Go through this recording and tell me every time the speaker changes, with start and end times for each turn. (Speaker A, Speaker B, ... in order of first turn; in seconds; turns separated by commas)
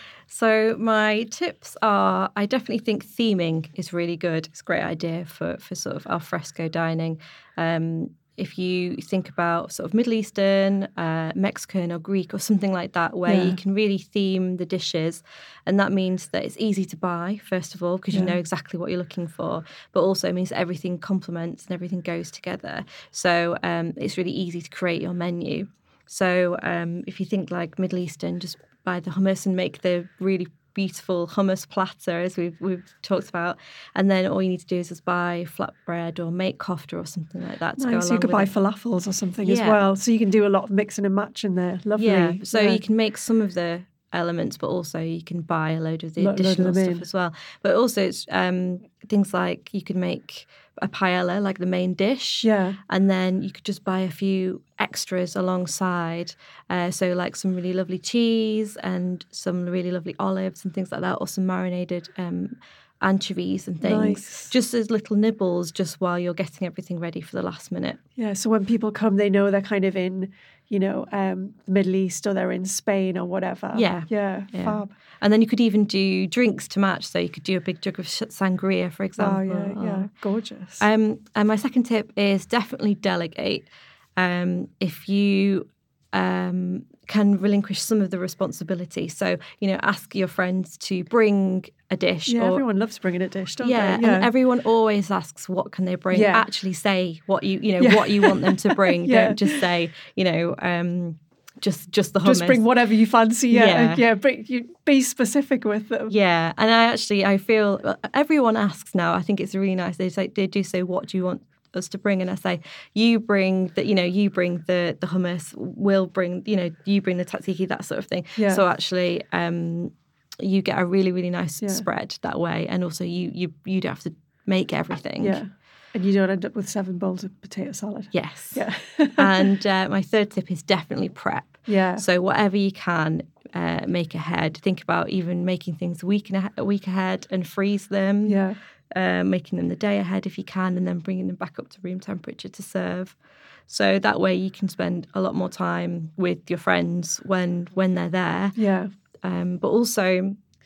Speaker A: 0.3-38.5, Speaker B: 13.2-13.6, Speaker B: 18.1-18.4, Speaker B: 37.8-42.8, Speaker A: 39.4-39.8, Speaker A: 41.9-68.0, Speaker B: 46.2-47.1, Speaker B: 52.4-52.8, Speaker B: 63.8-64.5, Speaker B: 68.2-75.0, Speaker A: 73.7-80.1, Speaker B: 79.2-80.8, Speaker A: 80.8-92.6, Speaker B: 92.3-94.3, Speaker A: 93.6-102.7, Speaker B: 96.1-96.5, Speaker B: 97.8-99.4, Speaker B: 102.2-106.1, Speaker A: 103.5-104.0, Speaker A: 106.1-125.4, Speaker B: 118.4-118.6, Speaker B: 121.6-121.8, Speaker B: 125.2-129.5, Speaker A: 128.1-143.1, Speaker B: 131.7-132.0, Speaker B: 138.2-138.6, Speaker A: 143.7-148.6, Speaker B: 148.5-148.9, Speaker A: 149.2-150.4